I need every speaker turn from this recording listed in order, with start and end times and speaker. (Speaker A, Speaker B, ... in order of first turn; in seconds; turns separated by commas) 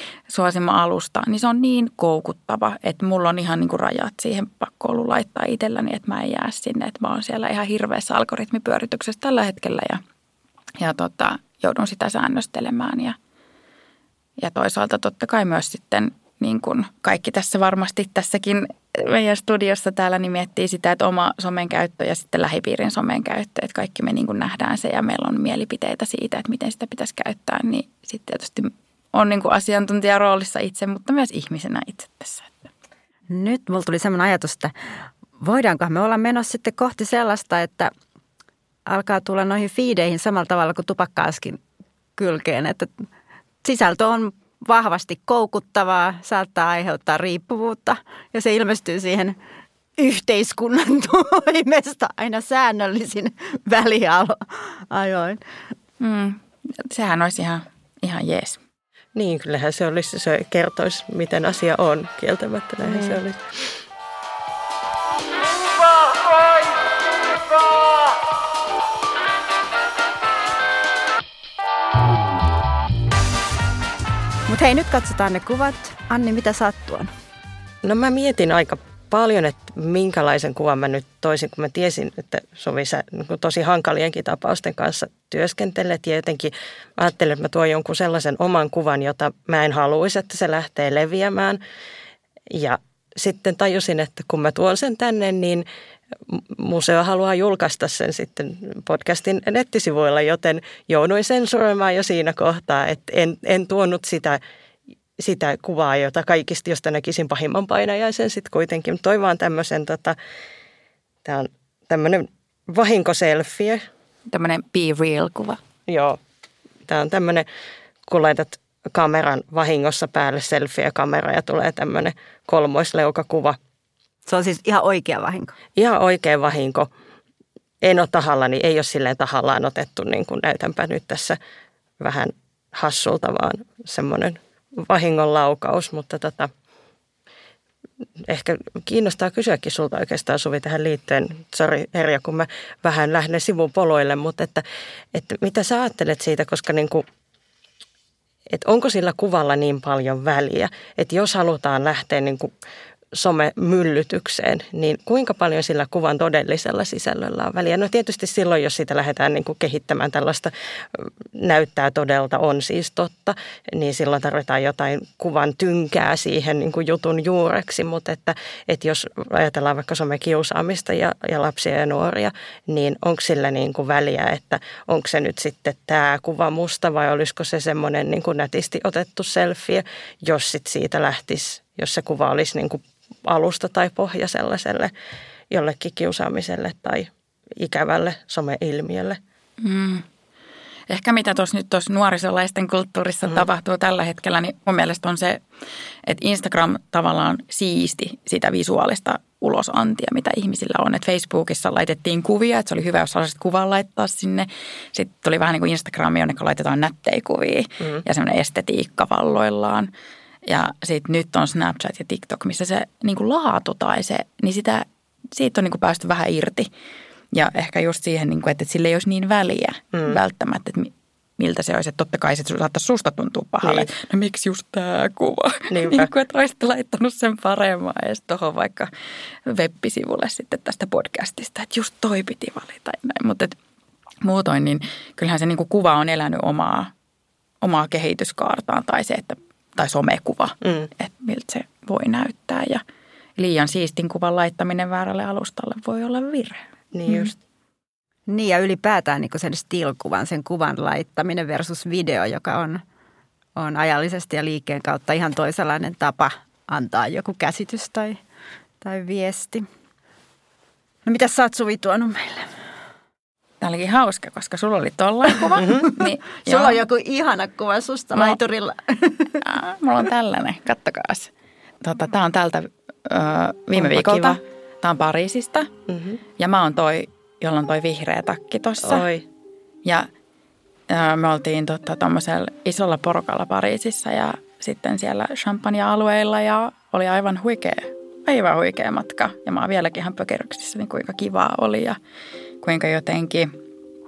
Speaker A: 0.3-10.0, Speaker A: 10.8-13.2, Speaker A: 14.4-32.7, Speaker B: 33.3-34.7, Speaker B: 35.4-37.9, Speaker B: 38.9-41.6, Speaker B: 42.1-43.0, Speaker B: 43.6-49.4, Speaker B: 50.0-55.4, Speaker A: 56.0-58.6, Speaker C: 59.1-63.6, Speaker B: 62.9-63.1, Speaker B: 74.5-77.1, Speaker C: 77.8-91.6, Speaker C: 92.5-95.7, Speaker C: 96.3-104.4, Speaker C: 105.2-110.2, Speaker C: 111.2-113.8, Speaker A: 114.3-115.6, Speaker C: 115.9-116.2, Speaker C: 116.9-117.5, Speaker C: 118.1-123.6, Speaker B: 124.2-125.5, Speaker C: 125.8-126.9, Speaker C: 127.8-131.4, Speaker C: 132.0-136.5, Speaker C: 138.2-144.6, Speaker C: 145.1-147.0, Speaker C: 148.5-152.5, Speaker C: 153.1-184.9, Speaker C: 185.5-189.2, Speaker A: 189.6-190.0, Speaker A: 190.9-195.4, Speaker A: 196.0-209.9, Speaker A: 210.4-216.7, Speaker A: 217.3-228.9, Speaker C: 219.9-220.2, Speaker C: 223.6-223.9, Speaker C: 225.7-226.1, Speaker A: 229.4-233.6, Speaker A: 234.2-236.9, Speaker A: 237.6-242.8, Speaker A: 243.4-247.3, Speaker C: 246.9-247.3, Speaker B: 248.3-252.8, Speaker B: 253.6-258.2, Speaker B: 258.8-259.7, Speaker B: 261.1-262.5, Speaker A: 263.6-266.8, Speaker C: 265.6-265.9, Speaker B: 266.4-269.4, Speaker A: 269.4-271.3, Speaker A: 271.8-275.7, Speaker C: 273.7-274.4, Speaker C: 275.9-276.2, Speaker A: 276.4-279.1, Speaker C: 278.8-279.2, Speaker A: 280.9-292.0, Speaker A: 292.6-293.5